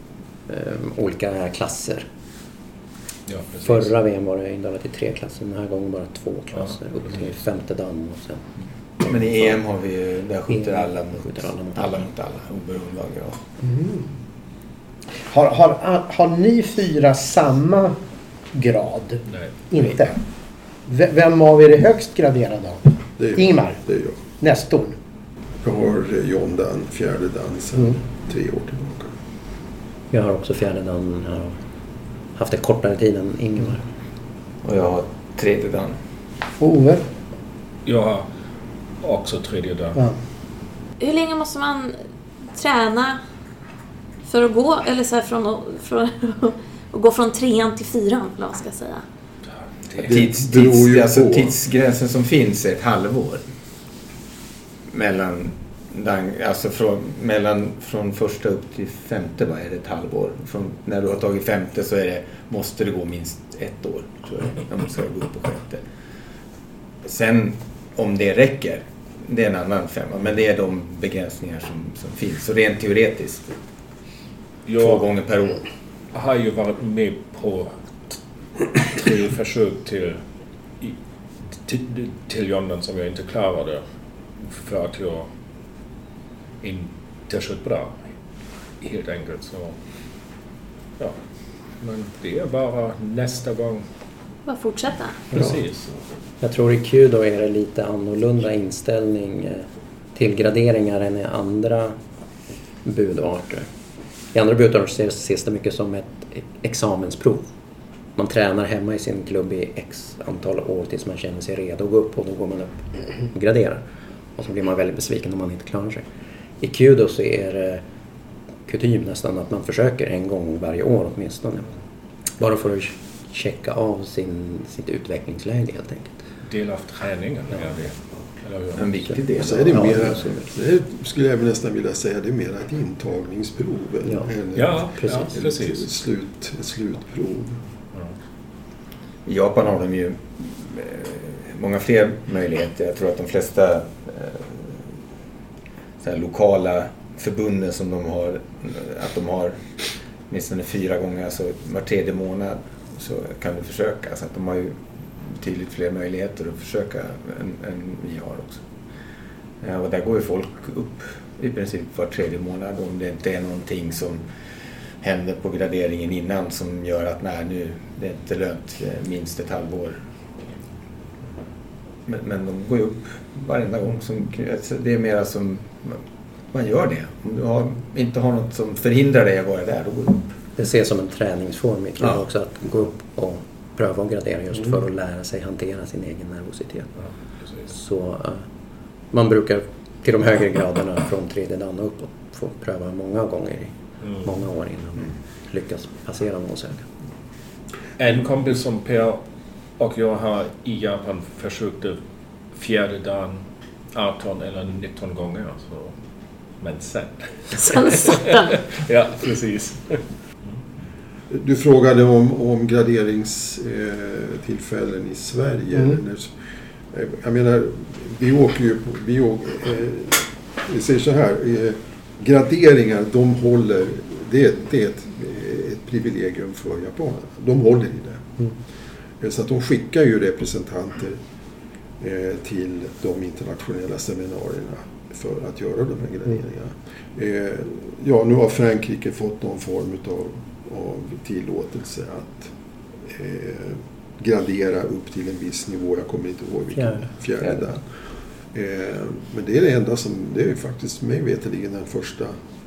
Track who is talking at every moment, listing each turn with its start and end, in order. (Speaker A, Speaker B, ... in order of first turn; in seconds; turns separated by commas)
Speaker A: 0.5-2.1, Speaker B: 3.3-3.9, Speaker A: 3.6-8.5, Speaker C: 9.0-13.4, Speaker A: 9.0-9.6, Speaker A: 10.5-12.0, Speaker D: 13.6-14.1, Speaker D: 15.3-17.9, Speaker D: 18.5-20.1, Speaker B: 19.3-19.9, Speaker D: 20.9-23.8, Speaker E: 23.2-24.2, Speaker D: 24.4-25.0, Speaker E: 25.6-29.1, Speaker A: 30.1-31.5, Speaker A: 32.3-33.8, Speaker C: 34.6-36.0, Speaker D: 36.6-37.0, Speaker B: 37.9-38.3, Speaker B: 39.0-40.0, Speaker F: 41.0-42.0, Speaker F: 42.5-43.2, Speaker F: 44.2-49.0, Speaker E: 50.0-51.5, Speaker C: 50.0-53.4, Speaker C: 54.9-65.8, Speaker C: 67.0-73.5, Speaker B: 74.7-75.0, Speaker C: 74.7-75.6, Speaker B: 76.1-80.2, Speaker B: 81.5-83.8, Speaker B: 84.4-85.3, Speaker B: 86.6-88.0, Speaker B: 88.8-89.8, Speaker B: 91.8-93.8, Speaker F: 94.5-95.2, Speaker B: 95.3-95.9, Speaker A: 96.4-102.0, Speaker A: 102.8-103.7, Speaker A: 104.3-107.5, Speaker A: 108.2-113.8, Speaker A: 114.3-116.0, Speaker A: 116.6-117.8, Speaker A: 118.7-121.7, Speaker A: 122.4-126.2, Speaker B: 126.4-128.9, Speaker C: 128.8-130.1, Speaker E: 129.4-137.6, Speaker A: 129.7-130.5, Speaker B: 134.5-135.8, Speaker A: 135.0-135.3, Speaker C: 139.2-144.8, Speaker C: 146.0-158.7, Speaker C: 159.6-164.2, Speaker C: 165.0-170.0, Speaker C: 172.1-176.0, Speaker C: 176.5-180.3, Speaker A: 180.6-186.9, Speaker A: 187.7-188.4, Speaker A: 189.1-196.9, Speaker B: 198.0-199.2, Speaker B: 199.8-202.0, Speaker B: 202.5-205.9, Speaker B: 206.6-210.0, Speaker F: 207.6-208.6, Speaker E: 211.3-216.3, Speaker E: 216.9-228.3, Speaker E: 229.2-231.2, Speaker E: 232.0-242.5, Speaker E: 243.1-247.8, Speaker A: 246.7-247.1, Speaker E: 248.5-252.3